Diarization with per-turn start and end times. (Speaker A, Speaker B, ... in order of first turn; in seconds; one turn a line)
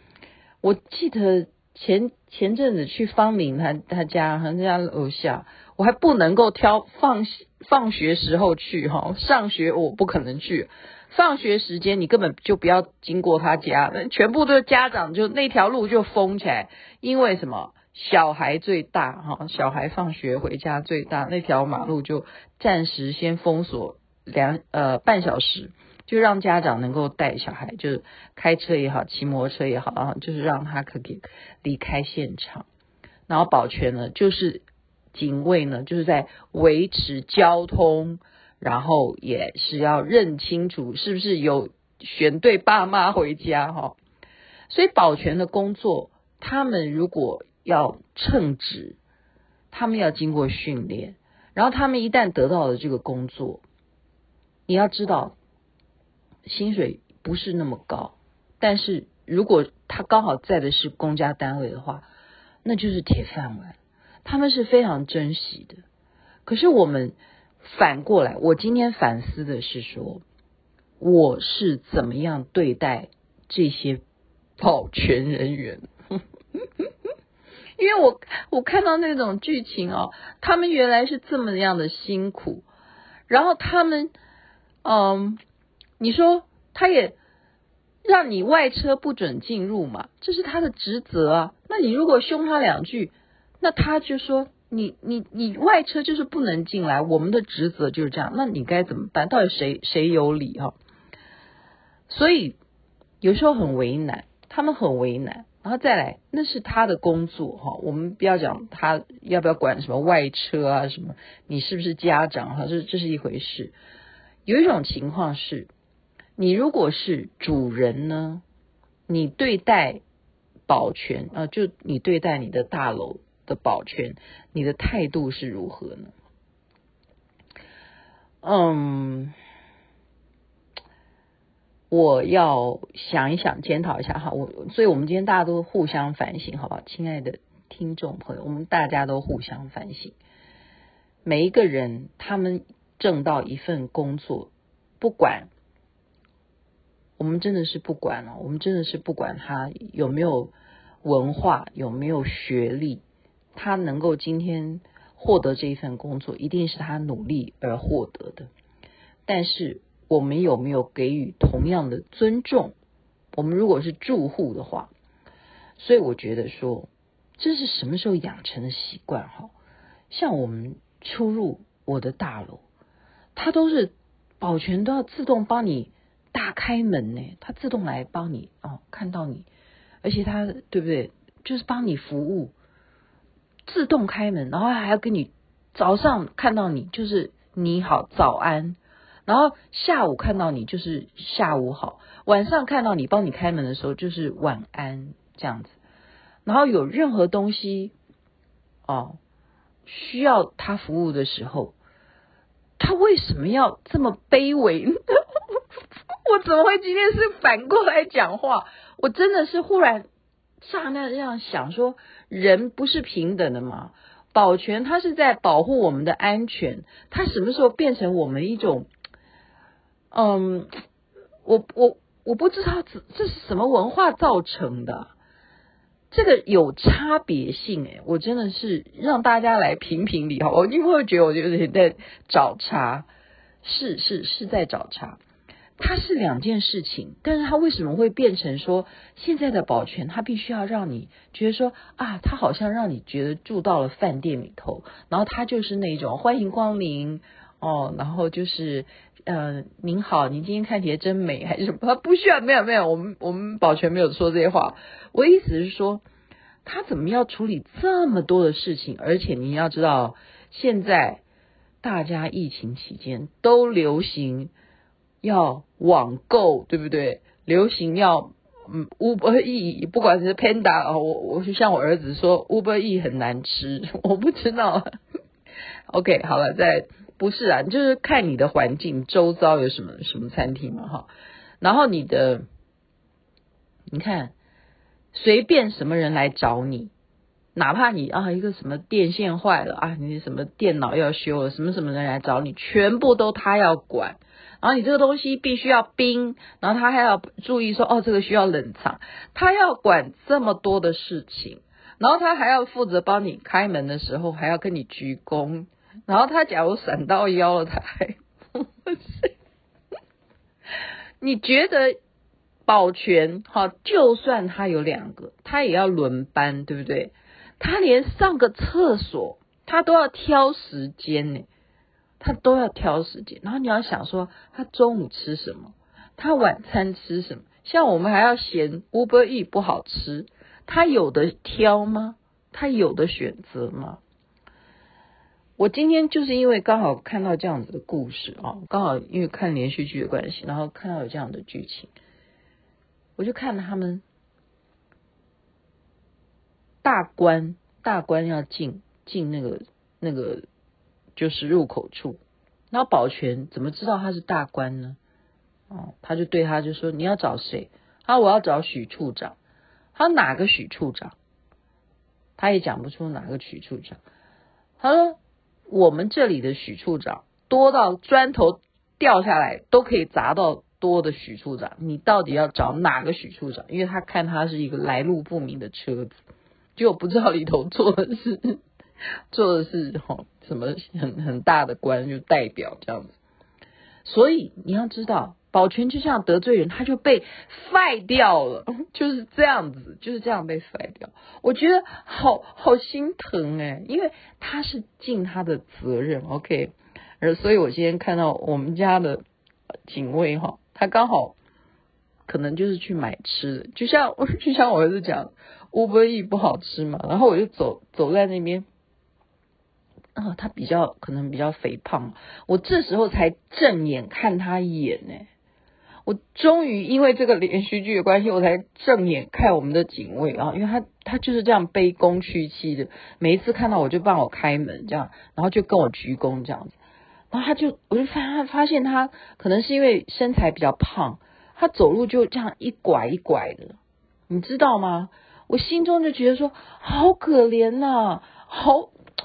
Speaker A: 0.6-32.7
Speaker A: 33.3-44.0
Speaker A: 44.7-49.0
Speaker A: 49.7-53.6
Speaker A: 54.7-55.4
Speaker A: 56.5-62.1
Speaker A: 62.6-65.8
Speaker A: 66.5-70.2
Speaker A: 71.0-74.0
Speaker A: 74.6-75.8
Speaker A: 76.6-76.9
Speaker A: 77.8-82.7
Speaker A: 83.3-84.1
Speaker A: 84.8-85.4
Speaker A: 86.0-87.2
Speaker A: 88.0-100.8
Speaker A: 102.1-102.6
Speaker A: 103.2-113.8
Speaker A: 114.5-115.7
Speaker A: 116.4-118.4
Speaker A: 119.1-120.0
Speaker A: 120.7-126.1
Speaker A: 128.4-129.3
Speaker A: 131.9-140.2
Speaker A: 141.2-145.5
Speaker A: 147.2-150.5
Speaker A: 151.0-153.0
Speaker A: 153.6-158.5
Speaker A: 159.3-162.7
Speaker A: 163.3-164.9
Speaker A: 165.8-169.5
Speaker A: 170.1-172.6
Speaker A: 173.4-179.5
Speaker A: 180.0-182.5
Speaker A: 183.7-195.8
Speaker A: 196.4-197.9
Speaker A: 198.9-199.2
Speaker A: 199.9-201.8
Speaker A: 202.8-205.4
Speaker A: 206.2-210.1
Speaker A: 210.6-218.9
Speaker A: 220.1-220.7
Speaker A: 221.4-225.1
Speaker A: 226.1-233.1
Speaker A: 233.6-235.2
Speaker A: 235.8-256.0
Speaker A: 256.6-261.2
Speaker A: 261.8-264.5
Speaker A: 265.2-274.8
Speaker A: 275.9-281.1
Speaker A: 281.6-282.4
Speaker A: 283.9-284.3
Speaker A: 285.1-286.9
Speaker A: 287.6-309.3
Speaker A: 311.2-312.0
Speaker A: 312.7-321.5
Speaker A: 322.2-334.0
Speaker A: 335.6-341.9
Speaker A: 343.2-344.0
Speaker A: 346.8-350.4
Speaker A: 351.2-355.0
Speaker A: 355.7-359.4
Speaker A: 359.9-361.2
Speaker A: 362.4-364.0
Speaker A: 364.8-365.2
Speaker A: 365.7-376.2
Speaker A: 376.8-378.6
Speaker A: 379.3-383.2
Speaker A: 384.1-399.2
Speaker A: 399.9-401.4
Speaker A: 402.3-408.7
Speaker A: 410.2-415.3
Speaker A: 416.1-426.8
Speaker A: 427.3-433.8
Speaker A: 434.3-438.9